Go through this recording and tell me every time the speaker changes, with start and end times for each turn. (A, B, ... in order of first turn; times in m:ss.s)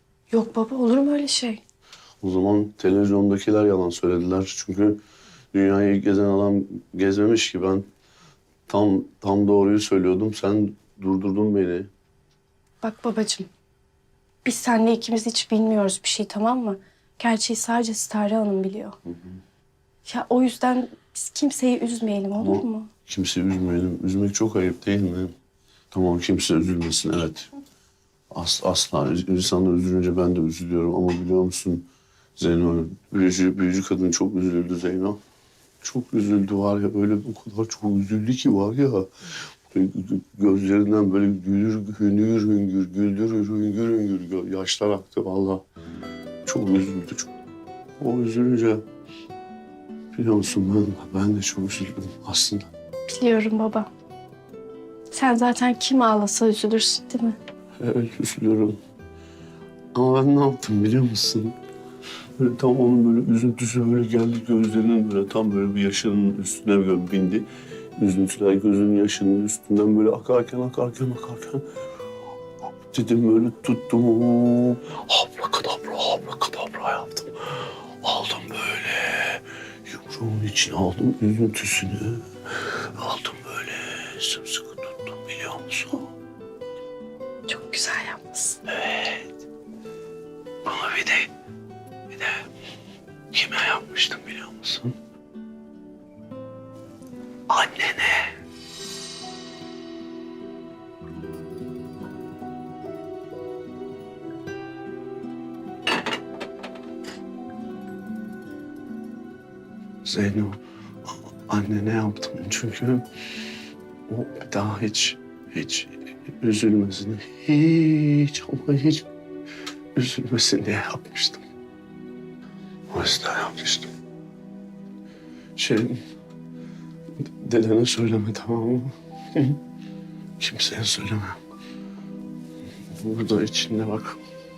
0:00.3-0:01.6 A
0:02.2-0:05.0 B
0:05.5-0:07.9 B
0:08.7-0:11.9 B
0:12.8-0:13.5 A
0:14.4-0:19.0 A
0:20.0-0:22.9 A
0:22.3-0:25.3 B
0:25.9-0:27.5 B
0:28.3-0:35.2 B
0:35.8-0:39.1 B
0:39.7-0:45.6 B
0:46.4-0:47.3 B
0:48.0-0:48.8 B
0:50.1-0:52.7 B
0:53.1-0:53.9 A
0:55.1-0:57.4 A
0:57.8-0:58.8 B
0:59.9-1:01.6 B
1:02.4-1:07.5 B
1:08.0-1:11.6 B
1:12.9-1:17.3 B
1:18.0-1:26.1 B
1:27.5-1:28.6 A
1:28.7-1:29.2 B
1:30.6-1:31.3 B
1:32.1-1:32.4 B
1:33.3-1:34.9 B
1:37.5-1:38.3 B
1:50.0-1:53.0 B
1:54.1-1:59.1 B
2:00.0-2:01.4 B
2:02.9-2:03.9 B
2:05.6-2:06.0 B
2:07.2-2:09.6 B
2:10.4-2:11.4 B
2:13.0-2:14.2 B